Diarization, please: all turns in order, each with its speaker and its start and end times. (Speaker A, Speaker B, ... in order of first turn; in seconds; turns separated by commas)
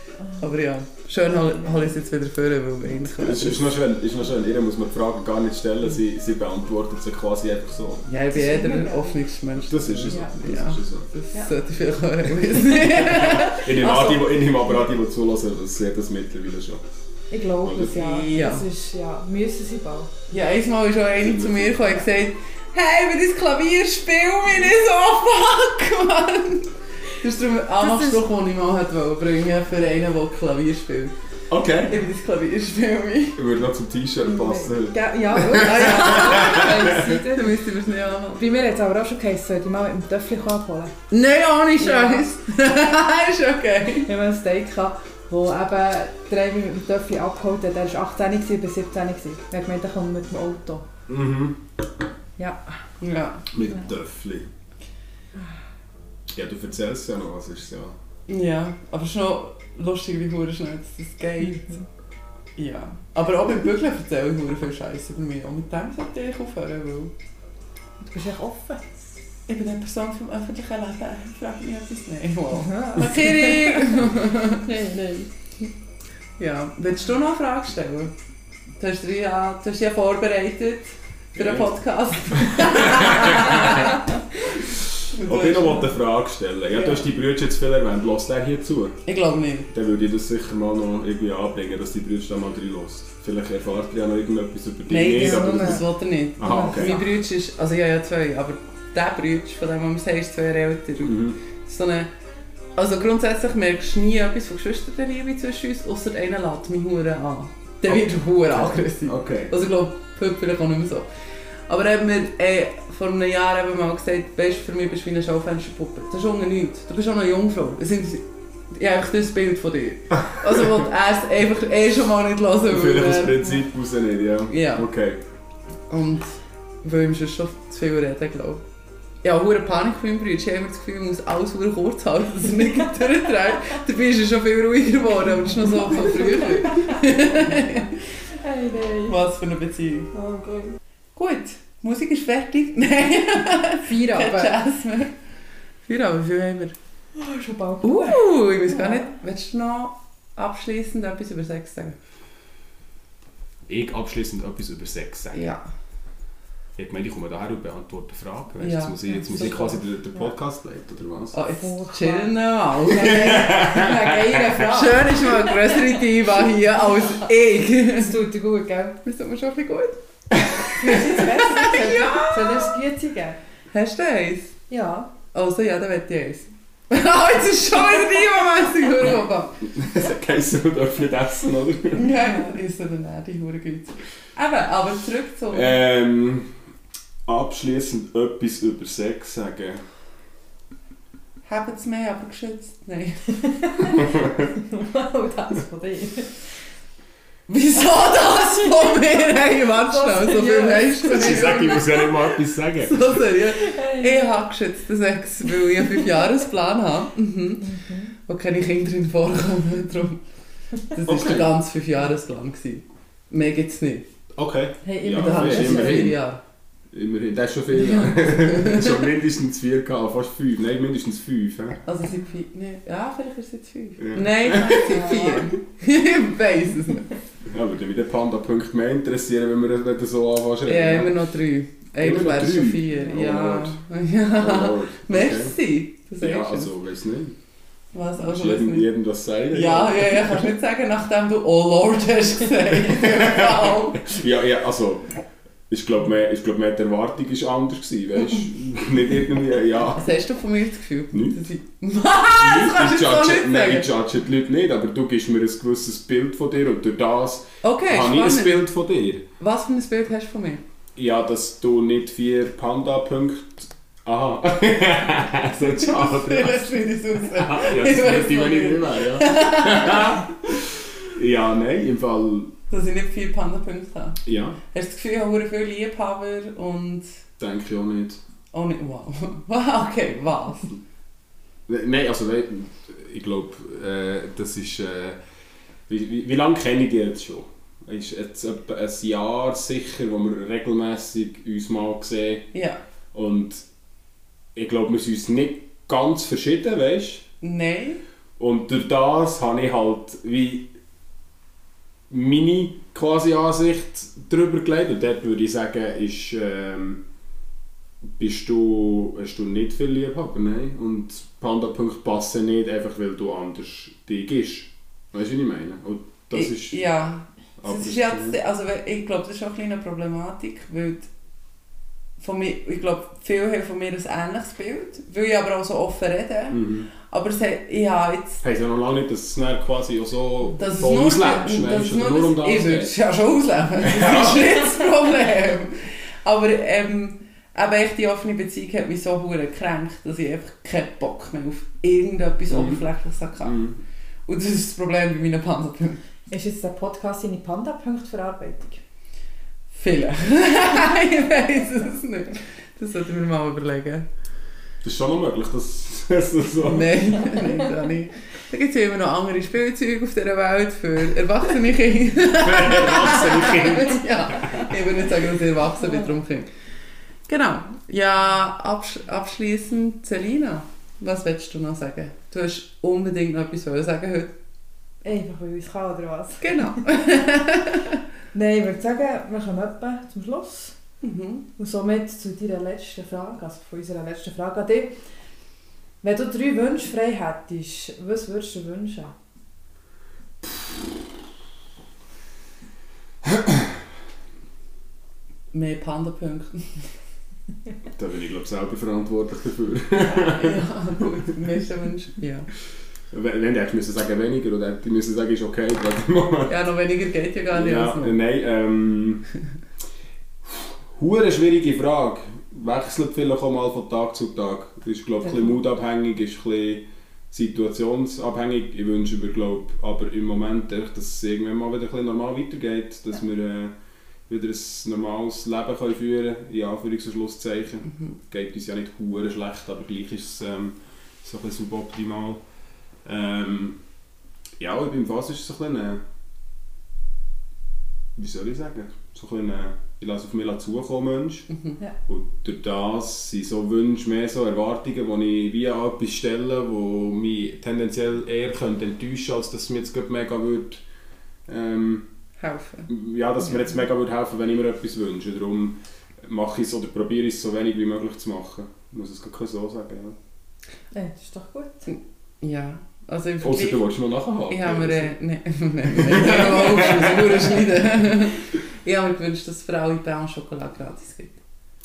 Speaker A: 0.4-3.7, Speaker B: 3.0-8.1, Speaker A: 8.1-14.2, Speaker C: 8.3-9.2, Speaker B: 9.7-11.1, Speaker C: 10.1-10.3, Speaker B: 13.4-16.8, Speaker C: 17.3-20.1, Speaker B: 17.6-18.0, Speaker A: 17.9-18.7, Speaker A: 20.3-31.1, Speaker B: 21.2-21.9, Speaker C: 27.8-28.2, Speaker B: 31.5-32.0, Speaker A: 31.9-33.4, Speaker B: 33.4-37.1, Speaker C: 34.2-37.5, Speaker A: 35.6-38.5, Speaker C: 38.4-40.9, Speaker A: 41.1-44.1, Speaker C: 41.8-42.3, Speaker C: 44.0-50.9, Speaker B: 51.1-51.6, Speaker A: 53.0-53.5, Speaker B: 53.5-54.5, Speaker B: 56.3-58.0, Speaker A: 58.3-61.8, Speaker A: 62.6-67.1, Speaker C: 68.0-69.2, Speaker A: 69.5-75.3, Speaker C: 72.5-74.0, Speaker A: 76.4-78.1, Speaker A: 78.8-84.6, Speaker B: 81.3-81.7, Speaker B: 82.4-83.8, Speaker A: 85.1-86.0, Speaker B: 85.2-89.0, Speaker A: 86.8-87.0, Speaker A: 89.1-89.7, Speaker B: 89.7-95.8, Speaker A: 94.9-102.1, Speaker C: 95.1-95.8, Speaker B: 96.4-97.0, Speaker C: 96.4-97.0, Speaker B: 101.0-101.4, Speaker A: 102.8-111.1, Speaker B: 107.9-109.5, Speaker A: 111.7-123.6, Speaker B: 122.7-125.2, Speaker A: 124.5-124.9, Speaker A: 125.9-126.3, Speaker A: 126.8-128.6, Speaker A: 129.2-138.0, Speaker C: 136.1-137.1, Speaker C: 138.3-139.2, Speaker A: 139.1-140.1, Speaker C: 140.1-140.8, Speaker A: 141.2-145.1, Speaker C: 143.8-144.6, Speaker A: 145.9-146.8, Speaker C: 147.2-149.1, Speaker A: 147.8-152.0, Speaker B: 153.7-155.5, Speaker A: 155.3-155.6, Speaker B: 156.8-161.4, Speaker A: 158.6-159.8, Speaker C: 159.3-159.8, Speaker A: 161.3-163.5, Speaker C: 161.5-165.8, Speaker B: 163.0-164.6, Speaker A: 164.6-168.2, Speaker C: 167.9-169.0, Speaker A: 169.0-170.0, Speaker C: 170.7-173.4, Speaker A: 170.7-172.8, Speaker A: 173.7-174.6, Speaker C: 174.7-175.1, Speaker A: 175.3-179.6, Speaker B: 179.6-182.1, Speaker A: 181.9-185.8, Speaker C: 182.2-182.6, Speaker B: 185.5-186.5, Speaker B: 187.3-189.8, Speaker A: 191.4-193.8, Speaker C: 193.7-196.3, Speaker B: 194.0-194.4, Speaker A: 197.5-210.2, Speaker C: 199.6-201.8, Speaker B: 201.1-203.2, Speaker C: 203.6-204.4, Speaker C: 207.6-208.1, Speaker A: 210.8-214.0, Speaker B: 211.0-211.6, Speaker B: 214.3-216.2, Speaker C: 214.8-216.2, Speaker A: 215.1-216.4, Speaker B: 216.9-221.8, Speaker A: 217.7-219.0, Speaker A: 221.9-227.1, Speaker B: 224.0-225.0, Speaker C: 224.7-225.5, Speaker B: 227.5-231.2, Speaker A: 230.7-236.7, Speaker B: 232.0-233.8, Speaker B: 234.4-235.6, Speaker B: 236.2-237.4, Speaker A: 237.9-238.9, Speaker B: 238.2-240.5, Speaker A: 239.5-244.1, Speaker B: 242.8-245.1, Speaker B: 245.7-250.2, Speaker A: 249.9-253.9, Speaker B: 251.1-251.4, Speaker B: 252.3-259.2, Speaker A: 257.6-258.7, Speaker A: 259.4-260.6, Speaker B: 261.0-266.6, Speaker A: 265.8-270.3, Speaker B: 267.2-272.5, Speaker A: 272.7-274.2, Speaker B: 274.2-274.6, Speaker A: 274.7-277.2, Speaker B: 277.4-278.2, Speaker A: 278.5-280.7, Speaker B: 281.7-285.2, Speaker B: 285.9-292.5, Speaker A: 292.5-292.8, Speaker B: 293.1-293.6, Speaker B: 294.6-297.3, Speaker A: 297.4-298.0, Speaker B: 298.4-300.7, Speaker B: 302.1-307.0, Speaker B: 308.2-316.9, Speaker A: 316.3-321.1, Speaker B: 317.6-318.4, Speaker A: 322.2-328.4, Speaker B: 326.5-326.9, Speaker B: 328.4-332.9, Speaker A: 330.6-343.6, Speaker B: 333.8-334.6, Speaker B: 342.5-342.8, Speaker B: 343.4-343.8, Speaker A: 344.3-346.0, Speaker C: 346.3-348.8, Speaker A: 349.7-354.1, Speaker B: 354.8-357.4, Speaker A: 356.6-366.5, Speaker B: 362.4-364.6, Speaker A: 367.3-374.3, Speaker C: 375.0-376.7, Speaker A: 376.4-378.0, Speaker C: 378.3-380.8, Speaker A: 381.0-381.5, Speaker C: 381.6-384.9, Speaker C: 386.0-389.1, Speaker B: 393.2-393.7, Speaker A: 395.5-396.9, Speaker B: 398.0-400.6, Speaker A: 400.2-402.5, Speaker B: 403.1-406.6, Speaker A: 406.5-408.2, Speaker B: 407.5-409.3, Speaker B: 410.4-423.7, Speaker B: 424.3-432.4, Speaker B: 433.1-433.8, Speaker B: 434.6-436.0, Speaker B: 438.2-441.5, Speaker B: 442.1-450.8, Speaker B: 451.5-452.1, Speaker A: 452.4-452.9, Speaker B: 452.9-460.2, Speaker C: 460.9-461.9, Speaker A: 461.9-463.8, Speaker B: 463.4-465.1, Speaker A: 464.5-471.4, Speaker B: 465.9-467.6